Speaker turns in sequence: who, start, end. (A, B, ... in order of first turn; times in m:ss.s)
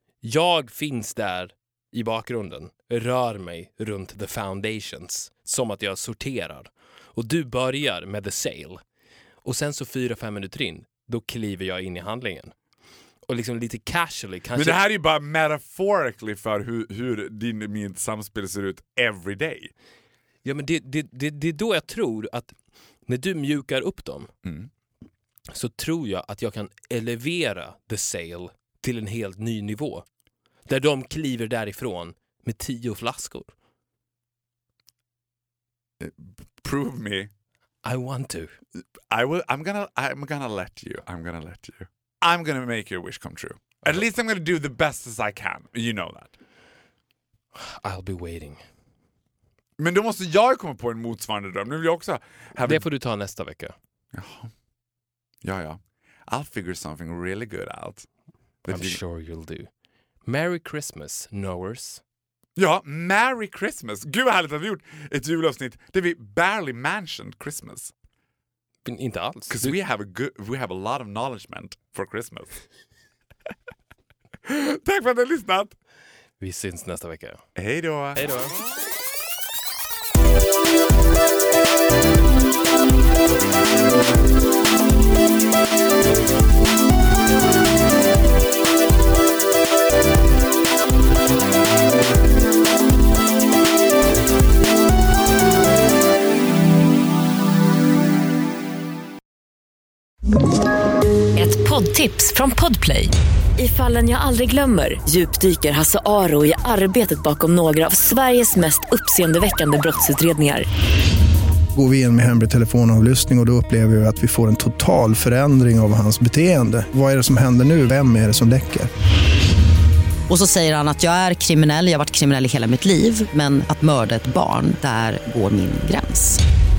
0:00.2-0:08.8 A
0:09.4-0:12.5 A
0:13.2-0:14.8 A
0:14.5-0:19.7 B
0:20.4-0:22.5 A
0:23.1-0:24.3 A
0:24.4-0:24.7 B
0:25.5-0:30.0 A
0:30.7-0:33.5 A
0:36.0-0:37.3 B
0:37.8-0:38.6 A
0:39.1-0:46.3 B
0:47.5-0:48.6 A
0:49.8-0:52.8 B
0:52.6-0:53.8 A
0:54.1-0:54.5 B
0:55.4-0:58.1 B
0:58.6-0:59.0 B
0:58.7-0:59.7 A
1:00.2-1:02.0 A
1:02.6-1:07.9 B
1:08.8-1:09.8 A
1:09.5-1:12.6 B
1:14.4-1:15.8 B
1:16.4-1:17.4 A
1:17.6-1:18.2 B
1:18.1-1:18.5 A
1:41.3-1:50.6 C
1:51.7-1:58.9 D
2:00.3-2:06.4 E